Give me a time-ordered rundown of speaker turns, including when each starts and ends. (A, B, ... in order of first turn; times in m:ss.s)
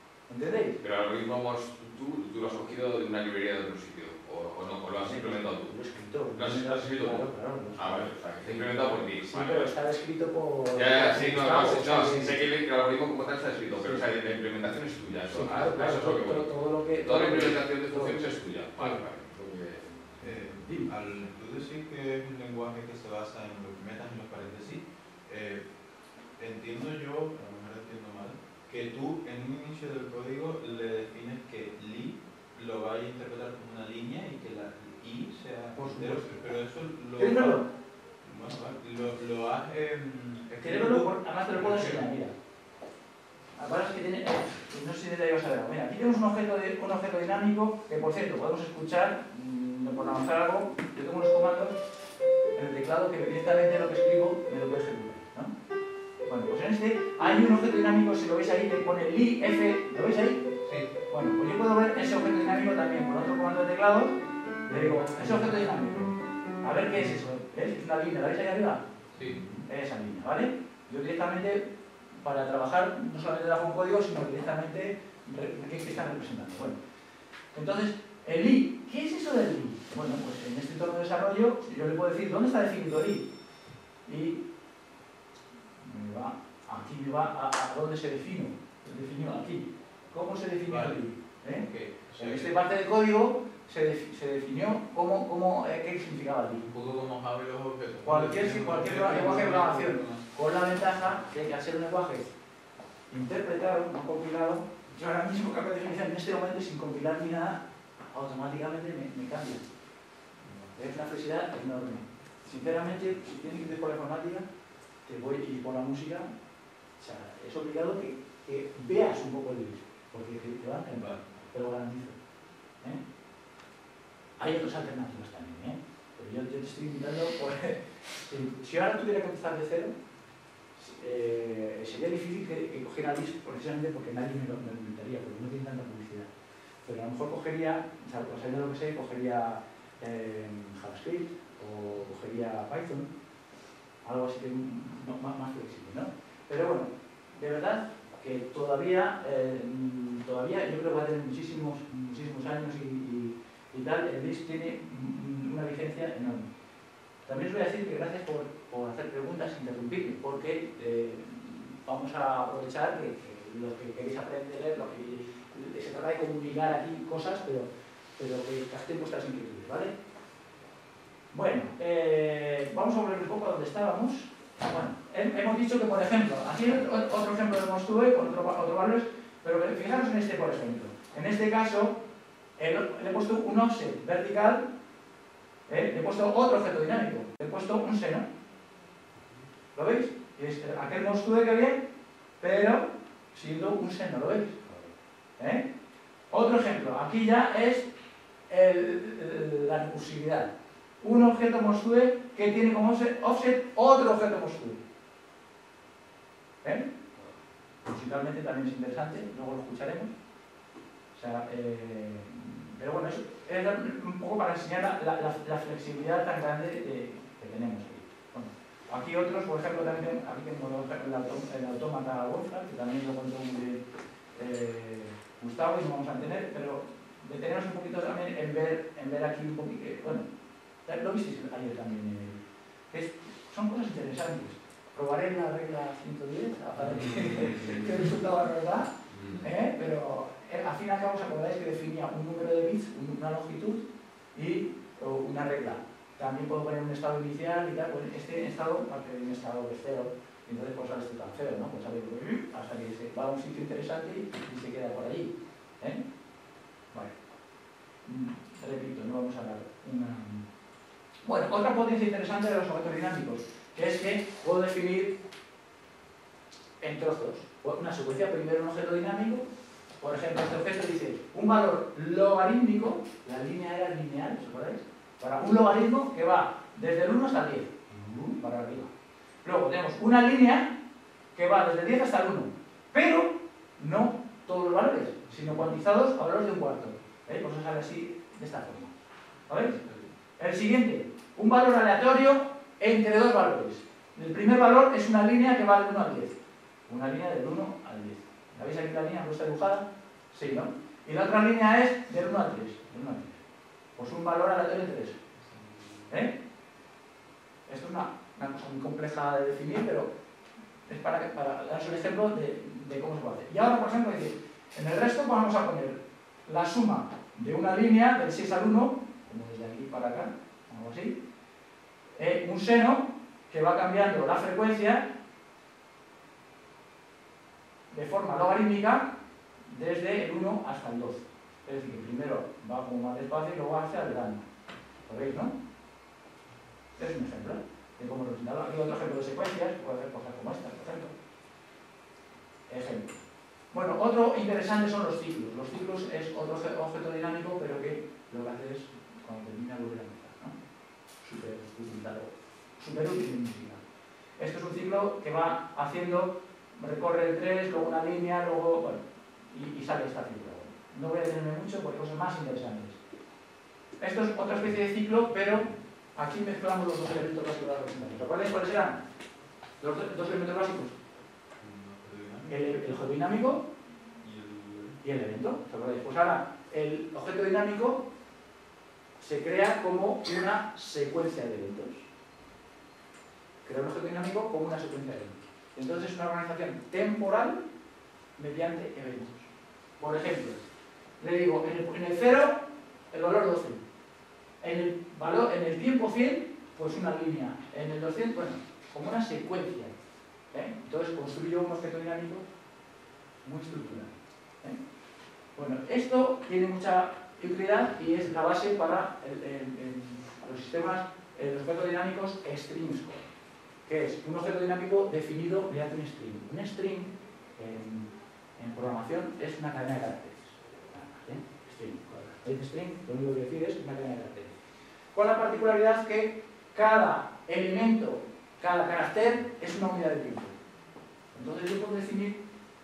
0:00.3-0:00.8 A
0:00.8-0:05.7 B
0:05.0-0:12.4 A
0:06.3-0:07.2 B
0:07.8-0:09.7 B
0:10.7-0:16.5 B
0:13.8-0:14.1 A
0:15.3-0:19.0 A
0:17.0-0:19.9 B
0:20.2-0:20.9 A
0:20.2-0:25.6 C
0:26.4-0:37.6 C
0:35.7-0:36.3 A
0:37.2-0:37.7 A
0:38.2-0:41.1 C
0:40.6-0:42.3 A
0:43.6-0:51.8 A
0:52.5-0:55.5 A
0:56.2-1:00.5 A
1:01.1-1:08.8 A
1:09.7-1:16.8 A
1:17.5-1:23.3 A
1:24.0-1:24.4 A
1:25.8-1:36.7 A
1:30.7-1:32.6 C
1:36.6-1:40.2 C
1:38.0-1:42.3 A
1:43.1-1:49.6 A
1:50.7-1:54.4 A
1:55.0-1:56.3 A
1:57.0-2:02.2 A
2:04.4-2:09.9 A
2:10.8-2:16.3 A
2:16.8-2:23.1 A
2:24.0-2:36.5 A
2:37.2-2:49.9 A
2:51.3-3:02.0 A
3:02.6-3:04.6 A
3:05.7-3:08.3 A
3:09.7-3:11.8 A
3:12.4-3:14.6 A
3:15.4-3:15.6 A
3:16.3-3:17.9 A
3:18.5-3:24.8 A
3:26.6-3:26.9 A
3:27.8-3:30.1 A
3:31.1-3:43.8 A
3:44.3-3:50.3 A
3:50.8-4:16.0 A
3:59.1-3:59.4 B
4:18.0-4:20.5 A
4:21.2-4:25.2 A
4:26.8-4:29.5 A
4:30.0-4:38.9 A
4:39.4-4:40.8 A
4:41.3-4:48.9 A
4:49.5-4:49.8 A
4:50.4-4:56.4 A
4:56.9-5:03.4 A
5:04.0-5:05.2 A
5:05.5-5:05.9 C
5:06.1-5:06.3 A
5:07.7-5:10.1 A
5:10.8-5:21.2 A
5:22.2-5:25.1 A
5:27.9-5:29.1 A
5:29.6-5:34.5 A
5:35.1-5:35.5 A
5:37.0-5:41.1 A
5:42.7-5:43.2 A
5:43.7-5:50.6 A
5:51.2-5:53.8 A
5:54.4-6:03.0 A
6:04.0-6:09.0 A
6:09.8-6:11.0 A
6:11.6-6:12.9 C
6:12.5-6:13.7 A
6:14.2-6:15.0 C
6:15.0-6:18.1 A
6:19.2-6:22.0 A
6:23.6-6:27.6 A
6:28.4-6:30.6 A
6:31.2-6:33.8 A
6:34.6-6:39.9 A
6:40.5-6:42.4 A
6:43.4-6:44.8 A
6:45.6-6:53.3 A
6:53.8-7:04.6 A
7:05.1-7:10.5 A
7:11.3-7:12.4 A